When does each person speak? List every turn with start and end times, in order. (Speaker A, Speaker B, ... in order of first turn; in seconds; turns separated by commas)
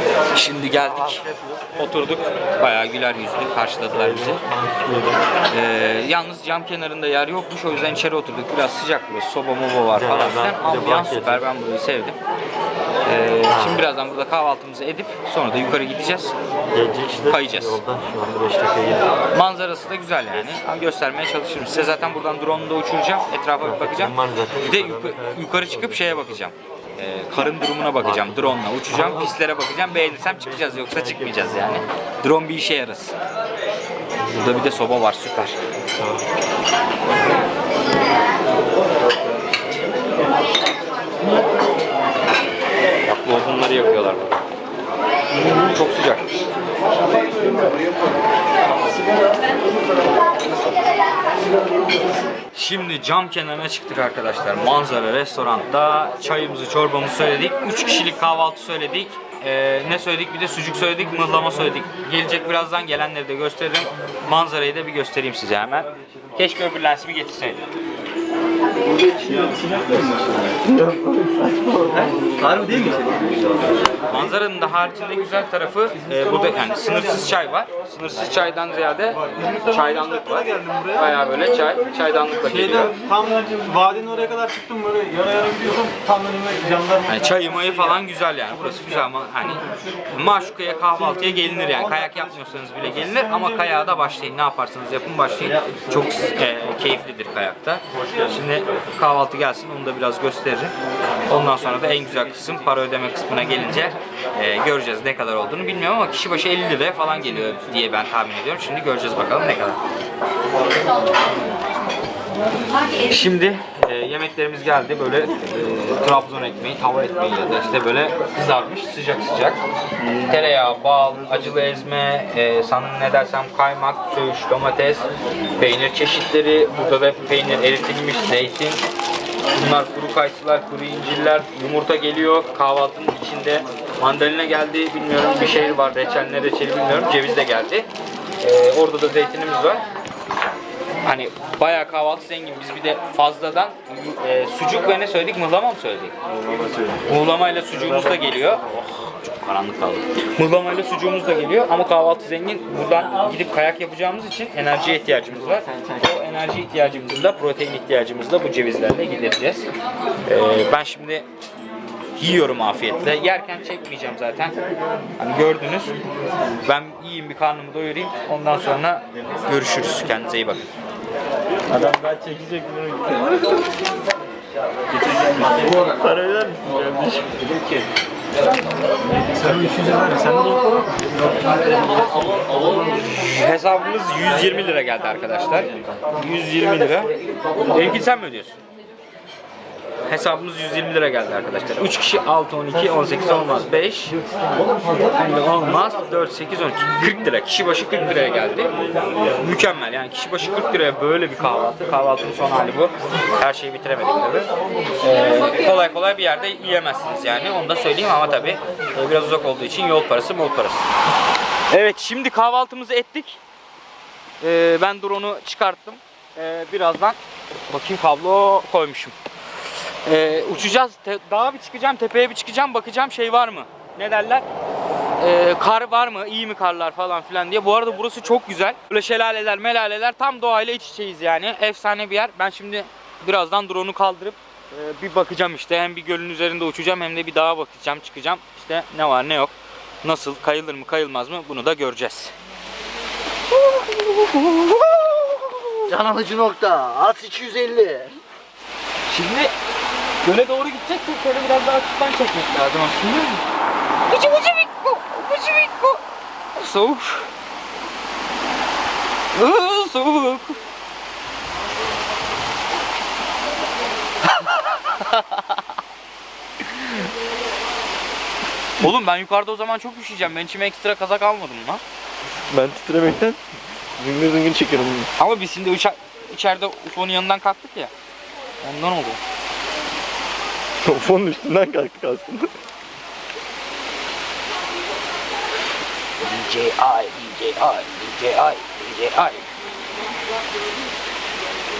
Speaker A: 0.3-4.4, Speaker B: 0.8-1.8, Speaker B: 4.0-5.2, Speaker A: 5.5-12.2, Speaker B: 10.0-11.4, Speaker A: 13.1-16.4, Speaker B: 13.5-13.8, Speaker B: 16.7-19.2, Speaker A: 17.3-17.8, Speaker A: 19.3-33.1, Speaker B: 23.6-26.2, Speaker B: 28.0-29.3, Speaker B: 30.5-31.9, Speaker A: 34.3-35.6, Speaker A: 43.0-44.4, Speaker A: 45.5-46.3, Speaker A: 52.5-67.6, Speaker B: 68.9-73.4, Speaker A: 74.1-83.0, Speaker C: 79.3-81.1, Speaker C: 82.5-87.3, Speaker A: 87.1-100.7, Speaker A: 101.3-109.8, Speaker A: 113.0-119.6, Speaker A: 120.3-125.1, Speaker A: 125.6-128.8, Speaker A: 129.5-137.9, Speaker A: 138.4-139.9, Speaker A: 141.0-146.2, Speaker B: 146.5-146.9, Speaker A: 147.1-159.7, Speaker A: 160.2-161.3, Speaker A: 162.2-164.6, Speaker A: 165.2-166.0, Speaker A: 166.6-170.7, Speaker B: 171.7-173.6, Speaker B: 175.3-177.5, Speaker C: 179.4-180.8, Speaker A: 183.1-187.1, Speaker A: 187.7-188.6, Speaker A: 190.1-194.2, Speaker A: 195.0-198.8, Speaker A: 199.4-204.5, Speaker A: 205.0-210.9, Speaker A: 211.7-213.4, Speaker A: 214.4-219.2, Speaker A: 220.1-224.4, Speaker A: 225.2-242.3, Speaker A: 243.7-245.8, Speaker B: 245.9-248.2, Speaker A: 249.1-249.5, Speaker A: 250.2-253.4, Speaker A: 254.1-256.0, Speaker A: 256.6-257.3, Speaker A: 259.3-260.6, Speaker A: 264.4-265.4, Speaker A: 266.7-267.0, Speaker A: 268.8-271.8, Speaker B: 272.5-273.4, Speaker B: 274.0-275.1, Speaker A: 275.2-277.9, Speaker A: 278.6-279.2, Speaker B: 280.8-282.5, Speaker A: 286.2-289.5